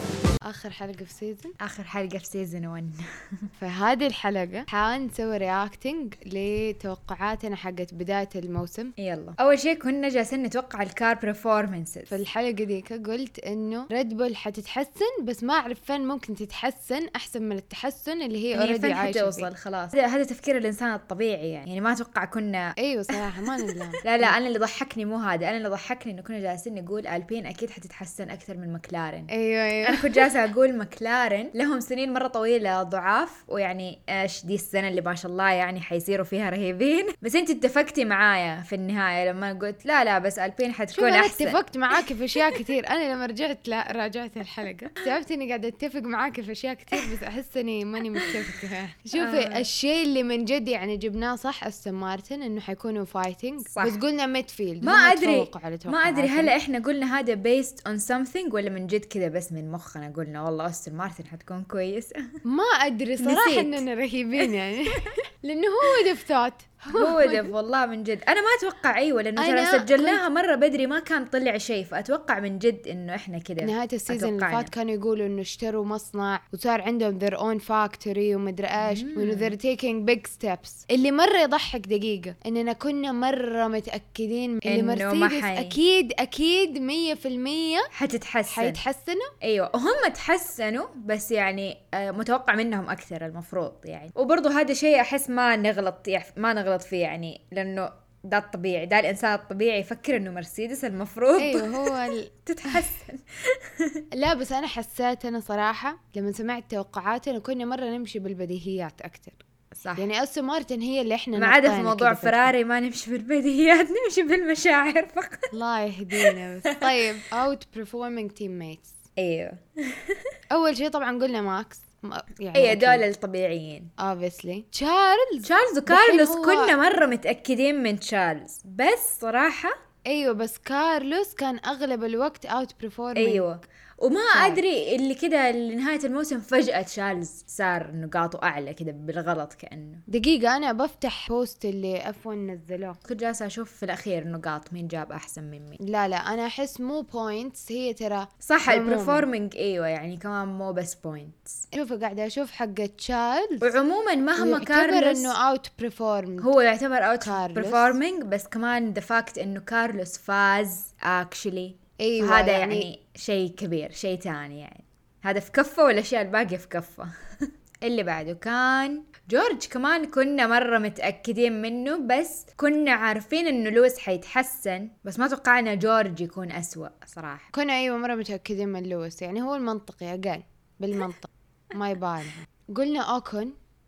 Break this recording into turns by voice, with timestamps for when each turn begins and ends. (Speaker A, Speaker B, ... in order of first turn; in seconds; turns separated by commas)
Speaker A: 0.5-1.6, Speaker B: 1.6-3.5, Speaker A: 3.6-8.9, Speaker B: 9.0-12.1, Speaker A: 12.1-19.5, Speaker B: 18.5-23.1, Speaker A: 22.8-24.3, Speaker B: 23.7-29.3, Speaker A: 29.3-30.2, Speaker B: 29.8-41.6, Speaker A: 40.9-56.5, Speaker B: 49.2-49.6, Speaker B: 53.7-54.0, Speaker B: 54.8-62.2, Speaker A: 62.5-67.5, Speaker B: 63.2-63.8, Speaker B: 66.9-74.7, Speaker A: 69.4-70.2, Speaker A: 73.6-87.9, Speaker B: 78.8-79.5, Speaker B: 84.7-85.8, Speaker B: 87.9-88.8, Speaker A: 88.5-89.3, Speaker B: 89.4-104.0, Speaker A: 101.4-102.8, Speaker A: 104.1-109.4, Speaker B: 109.8-110.1, Speaker A: 110.0-112.5, Speaker B: 111.4-115.5, Speaker A: 115.5-119.0, Speaker B: 116.2-117.0, Speaker B: 119.2-120.3, Speaker A: 120.5-123.0, Speaker B: 122.5-123.9, Speaker A: 124.0-126.7, Speaker B: 125.4-129.8, Speaker A: 130.1-133.5, Speaker B: 133.2-140.0, Speaker A: 134.3-134.6, Speaker A: 140.1-143.0, Speaker B: 143.1-145.8, Speaker A: 145.8-149.3, Speaker B: 148.4-151.6, Speaker A: 151.7-153.7, Speaker B: 153.6-155.3, Speaker A: 154.4-156.5, Speaker B: 156.4-177.5, Speaker A: 157.2-157.9, Speaker A: 162.0-162.9, Speaker A: 177.5-183.6